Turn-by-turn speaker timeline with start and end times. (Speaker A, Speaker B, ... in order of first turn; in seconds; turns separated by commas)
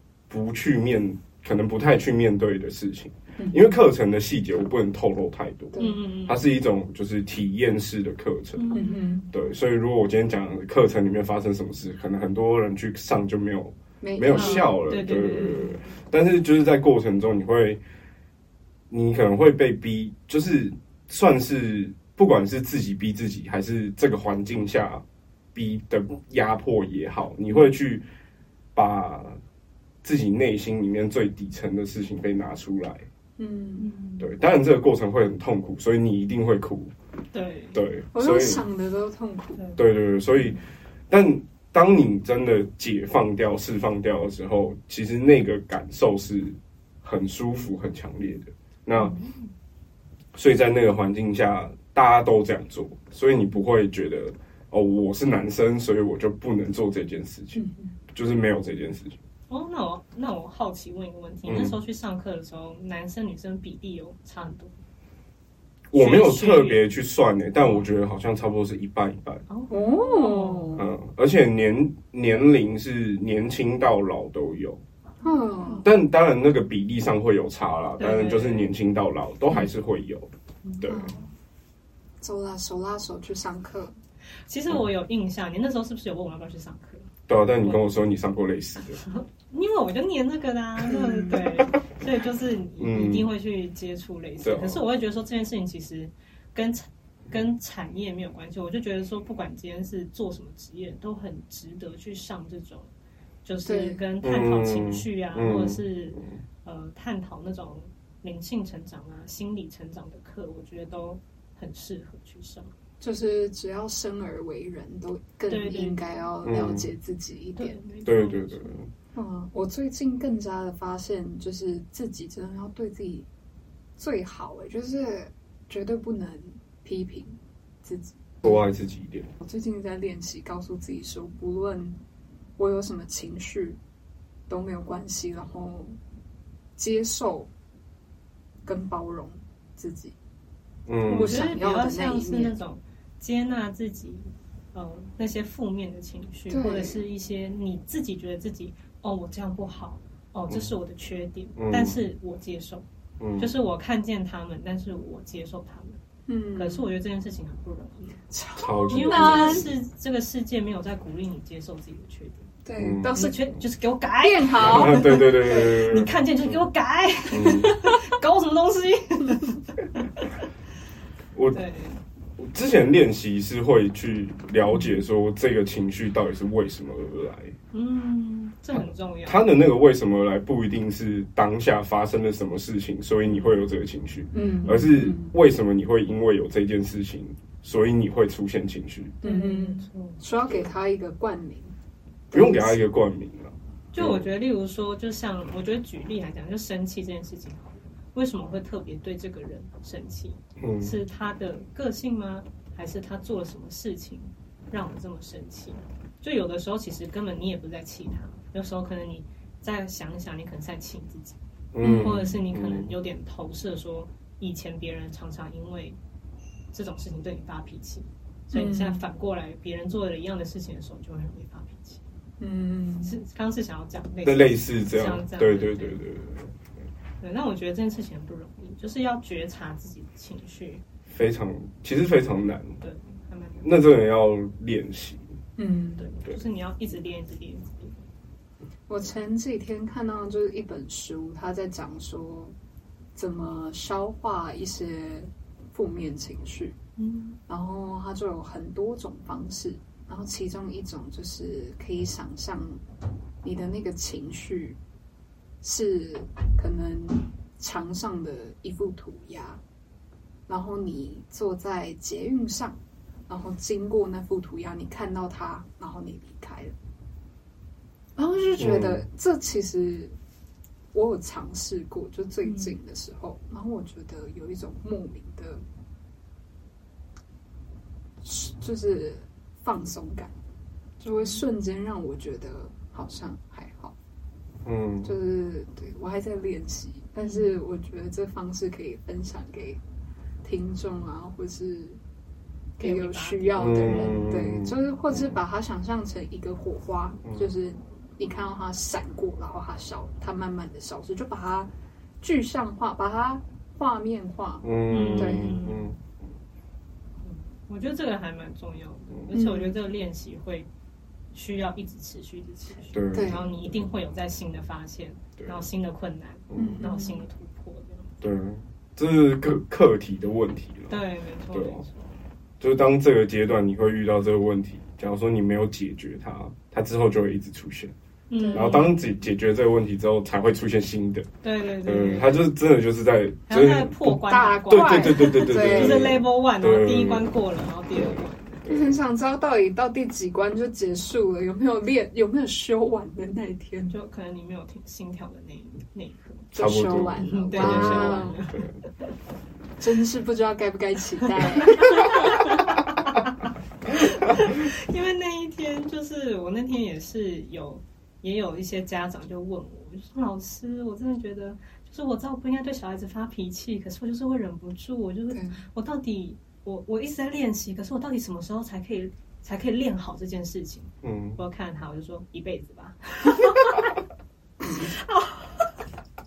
Speaker A: 0.3-8.8, Speaker B: 3.4-3.7, Speaker B: 5.7-6.0, Speaker C: 5.8-6.4, Speaker C: 8.6-9.0, Speaker B: 8.7-9.3, Speaker A: 9.3-17.8, Speaker B: 14.0-14.8, Speaker C: 14.3-15.8, Speaker A: 18.9-28.1, Speaker A: 28.7-29.4, Speaker A: 30.0-33.1, Speaker B: 33.4-33.9, Speaker C: 33.8-34.3, Speaker A: 34.2-36.9, Speaker C: 37.3-37.8, Speaker A: 37.7-38.6, Speaker B: 38.1-39.6, Speaker A: 39.8-49.1, Speaker C: 48.9-49.5, Speaker A: 50.3-59.2, Speaker B: 57.5-57.9, Speaker C: 59.5-64.8, Speaker A: 61.5-61.8, Speaker A: 65.9-69.5, Speaker C: 65.9-66.9, Speaker C: 69.5-70.8, Speaker B: 69.7-70.8, Speaker A: 70.8-74.8, Speaker B: 75.2-75.8, Speaker A: 75.8-81.1, Speaker C: 78.0-78.7, Speaker B: 80.8-81.3, Speaker B: 82.2-83.9, Speaker C: 84.5-87.8, Speaker A: 87.3-89.0, Speaker C: 89.0-102.9, Speaker B: 90.8-91.5, Speaker A: 92.8-93.3, Speaker A: 94.4-94.8, Speaker C: 103.4-112.7, Speaker B: 103.6-104.0, Speaker A: 104.2-106.3, Speaker B: 113.0-117.8, Speaker C: 115.5-116.1, Speaker A: 116.4-116.9, Speaker C: 117.6-118.7, Speaker A: 118.0-118.9, Speaker B: 119.1-123.3, Speaker B: 124.0-128.2, Speaker A: 128.4-129.3, Speaker B: 129.4-132.0, Speaker B: 132.6-133.8, Speaker B: 134.5-136.0, Speaker B: 136.8-137.5, Speaker B: 138.7-140.2, Speaker A: 140.9-141.5, Speaker C: 141.1-152.8, Speaker B: 141.1-142.5, Speaker B: 146.5-147.0, Speaker A: 151.6-152.0, Speaker A: 153.2-153.5, Speaker C: 153.4-156.0, Speaker B: 156.3-156.9, Speaker C: 156.6-158.2, Speaker B: 158.3-159.7, Speaker A: 158.6-159.7, Speaker C: 158.9-162.5, Speaker B: 162.6-163.4, Speaker A: 162.8-163.1, Speaker C: 163.1-170.3, Speaker B: 164.2-165.3, Speaker A: 164.6-166.5, Speaker A: 167.3-167.7, Speaker A: 171.3-171.6, Speaker C: 171.5-172.0, Speaker A: 172.4-177.5, Speaker C: 177.7-179.5, Speaker A: 178.7-189.2, Speaker C: 183.2-183.6, Speaker B: 184.3-185.3, Speaker C: 189.2-190.2, Speaker B: 189.2-191.7, Speaker B: 192.3-192.8, Speaker A: 192.3-194.3, Speaker C: 193.9-216.0, Speaker A: 200.6-201.0, Speaker A: 211.7-212.9, Speaker B: 211.8-212.3, Speaker C: 216.7-222.1, Speaker B: 218.5-219.0, Speaker B: 222.4-223.2, Speaker C: 223.0-226.0, Speaker A: 224.2-226.6, Speaker C: 227.2-230.8, Speaker A: 231.1-232.8, Speaker C: 232.8-233.7, Speaker A: 233.6-235.3, Speaker B: 235.6-236.1, Speaker C: 236.0-238.0, Speaker B: 238.9-242.5, Speaker B: 243.1-246.8, Speaker C: 247.0-247.4, Speaker B: 247.5-252.8, Speaker B: 253.4-254.8, Speaker B: 255.6-259.6, Speaker B: 260.5-262.8, Speaker B: 263.3-266.7, Speaker B: 268.1-270.1, Speaker A: 268.6-269.0, Speaker B: 270.9-275.6, Speaker C: 272.4-272.7, Speaker B: 278.2-280.3, Speaker B: 281.0-283.9, Speaker C: 281.1-281.4, Speaker A: 284.6-285.1, Speaker B: 285.0-289.8, Speaker C: 287.2-287.5, Speaker B: 290.4-292.0, Speaker C: 292.8-294.3, Speaker B: 292.8-305.6, Speaker A: 293.6-295.2, Speaker A: 304.6-306.0, Speaker C: 304.9-305.9, Speaker C: 307.2-310.7, Speaker B: 309.3-309.7, Speaker C: 311.3-318.2, Speaker A: 312.9-313.5, Speaker B: 313.1-313.5, Speaker A: 316.5-316.8, Speaker B: 316.6-317.2, Speaker A: 318.2-321.0, Speaker C: 320.9-322.2, Speaker A: 321.5-321.8, Speaker A: 322.6-327.9, Speaker C: 328.3-329.1, Speaker B: 328.4-328.9, Speaker A: 328.5-331.3, Speaker C: 331.4-332.4, Speaker A: 331.8-337.3, Speaker C: 333.5-338.7, Speaker B: 334.2-336.1, Speaker A: 337.9-338.9, Speaker B: 338.7-343.9, Speaker C: 343.9-346.5, Speaker B: 346.5-348.4, Speaker A: 346.6-348.8, Speaker C: 347.1-348.7, Speaker B: 349.8-352.6, Speaker C: 351.4-353.3, Speaker C: 353.9-373.9, Speaker B: 365.3-365.6, Speaker A: 371.0-371.4, Speaker C: 374.6-375.8